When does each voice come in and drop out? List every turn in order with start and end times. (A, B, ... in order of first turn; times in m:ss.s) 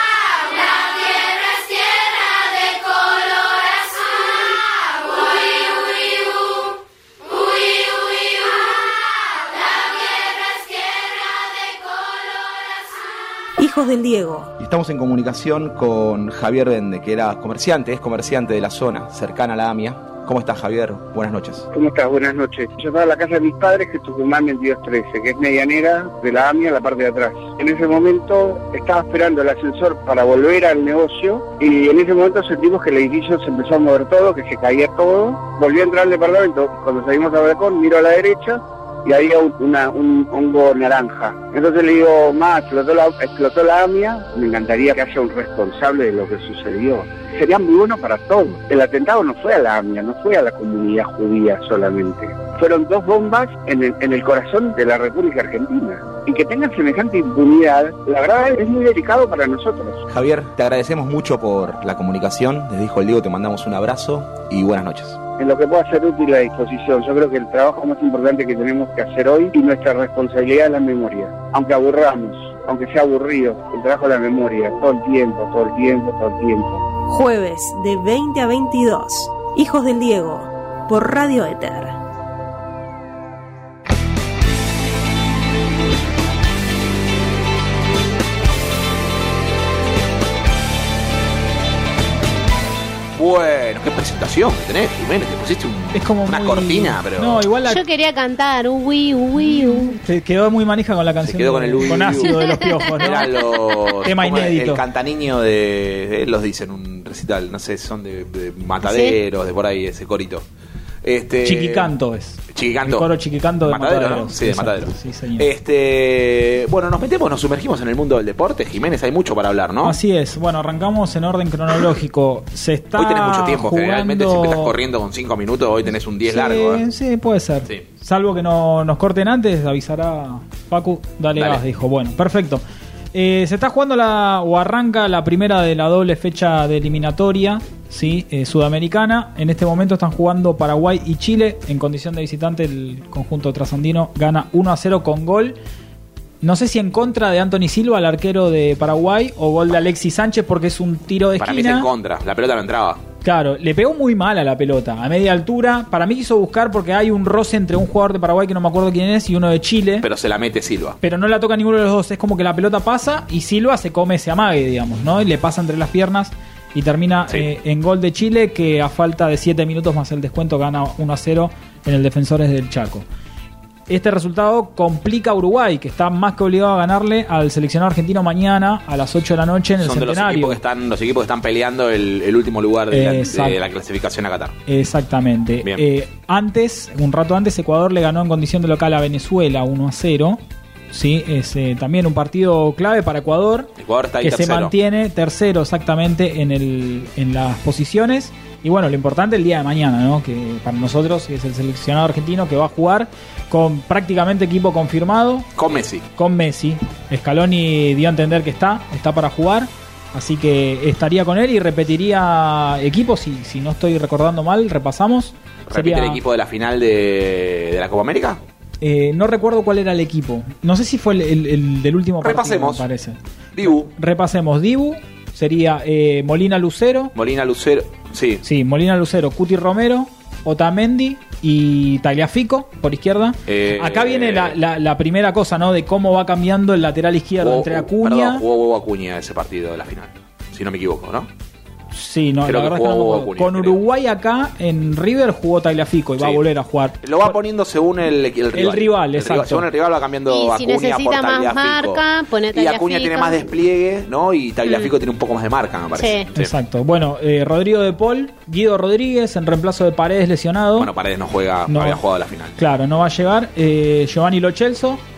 0:13.6-0:14.5 A
0:14.6-0:21.6 B
0:21.7-1:00.0 C
1:00.1-1:05.2 B
1:05.4-1:16.8 C
1:17.1-1:22.0 A
1:33.2-1:37.4 B
1:35.9-1:37.8 D
1:37.6-1:40.0 E
1:39.9-1:43.3 D
1:41.2-1:50.4 B
1:44.0-1:44.8 D
1:48.8-1:49.2 E
1:51.0-1:51.9 B
1:51.4-1:55.5 D
1:52.5-1:53.1 B
1:53.6-2:00.0 B
1:59.8-2:04.7 D
2:03.0-2:06.8 B
2:06.3-2:12.6 D
2:11.4-2:11.6 B
2:13.1-2:25.6 D
2:26.4-2:31.9 D
2:31.4-2:33.0 B
2:33.2-2:40.1 D
2:40.0-2:41.0 B
2:41.0-2:53.1 D
2:53.9-3:00.6 D
2:59.8-3:04.6 B
3:02.9-3:03.6 D
3:04.7-3:13.7 D
3:13.8-3:14.7 B
3:14.2-3:25.5 D
3:25.6-3:26.1 B
3:26.2-3:36.2 D
3:35.7-3:38.4 B
3:38.8-3:47.1 D
3:42.2-3:42.9 B
3:43.6-3:43.9 B
3:47.2-3:48.4 B
3:48.4-3:58.4 D
3:53.5-3:54.6 B
3:57.4-4:01.3 B
4:01.9-4:07.4 D
4:02.4-4:03.8 B
4:06.2-4:06.4 B
4:07.0-4:12.0 B
4:08.5-4:09.7 D
4:10.3-4:13.4 E
4:12.5-4:16.5 B
4:16.0-4:16.3 E
4:16.4-4:20.9 D
4:20.8-4:22.6 B
4:21.7-4:22.0 D
4:22.6-4:25.0 D